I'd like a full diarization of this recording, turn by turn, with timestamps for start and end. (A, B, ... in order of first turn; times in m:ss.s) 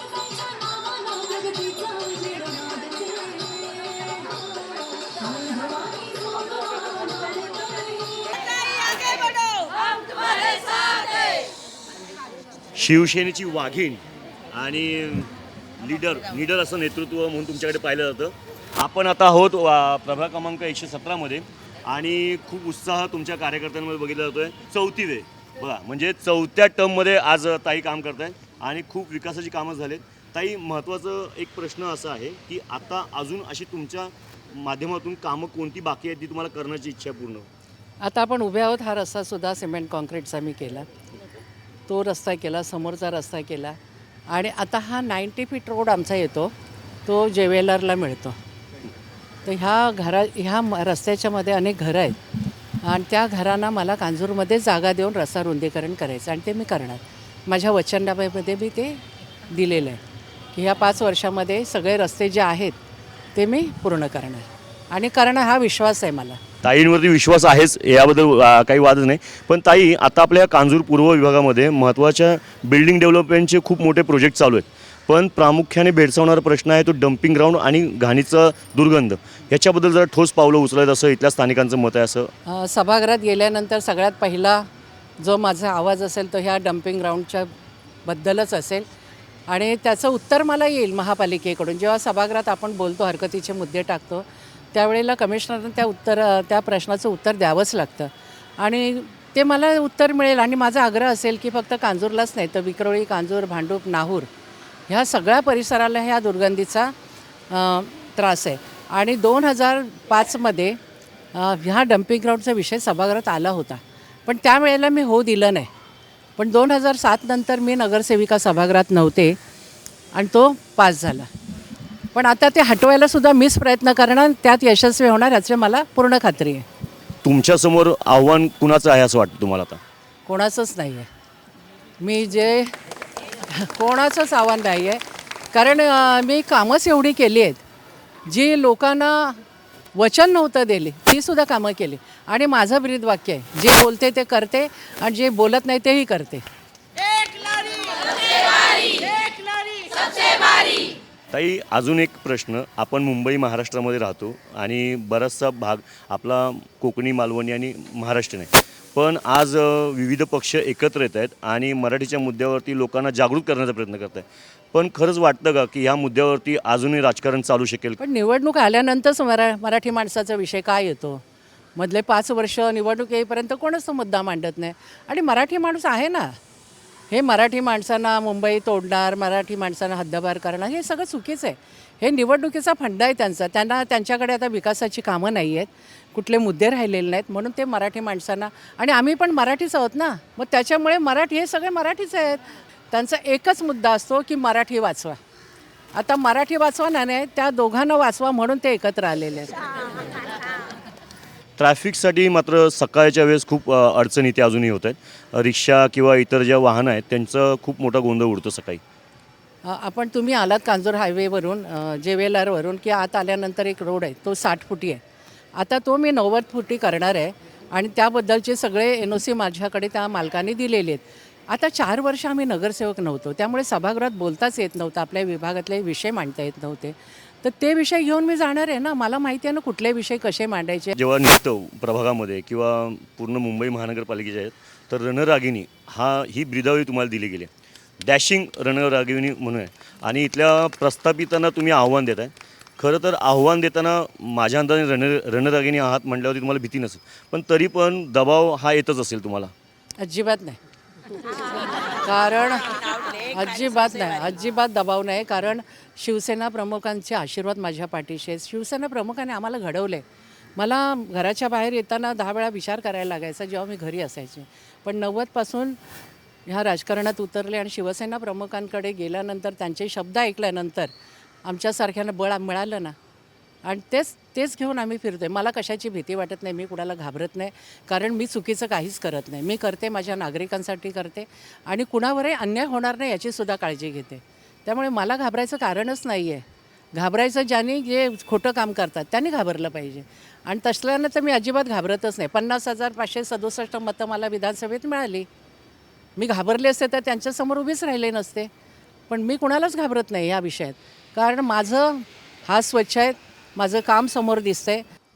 0:12.8-0:37.5 A
0:38.0-0:40.9 B
0:41.9-0:43.8 B
0:44.3-0:46.5 B
0:47.1-0:48.4 B
0:49.5-0:52.2 B
0:52.8-1:00.0 B
1:00.5-1:02.8 B
1:03.4-1:06.4 B
1:06.6-1:22.3 A
1:22.5-1:24.7 B
1:25.2-1:27.5 B
1:28.1-1:28.9 B
1:29.5-1:44.3 B
1:44.9-1:46.9 B
1:47.5-1:50.8 B
1:51.3-1:55.7 B
1:56.4-1:59.4 B
2:00.2-2:01.3 B
2:02.1-2:06.6 B
2:07.2-2:09.8 A
2:10.3-2:11.1 B
2:12.0-2:12.7 B
2:13.5-2:15.0 B
2:15.5-2:17.6 B
2:18.3-2:19.4 B
2:20.0-2:26.4 B
2:31.3-2:48.0 A
2:48.0-2:51.2 B
2:51.8-2:56.3 B
2:57.1-3:15.2 B
3:16.0-3:19.7 B
3:21.6-3:28.8 A
3:29.6-3:35.0 B
3:35.6-3:50.9 B
3:51.0-4:09.5 A
4:10.0-4:10.6 B
4:11.4-4:20.0 B
4:20.6-4:25.8 B
4:26.5-4:30.9 B
4:31.4-4:33.0 B
4:33.6-4:46.4 B
4:47.0-4:55.3 B
4:56.2-4:58.5 B
4:59.1-5:04.8 B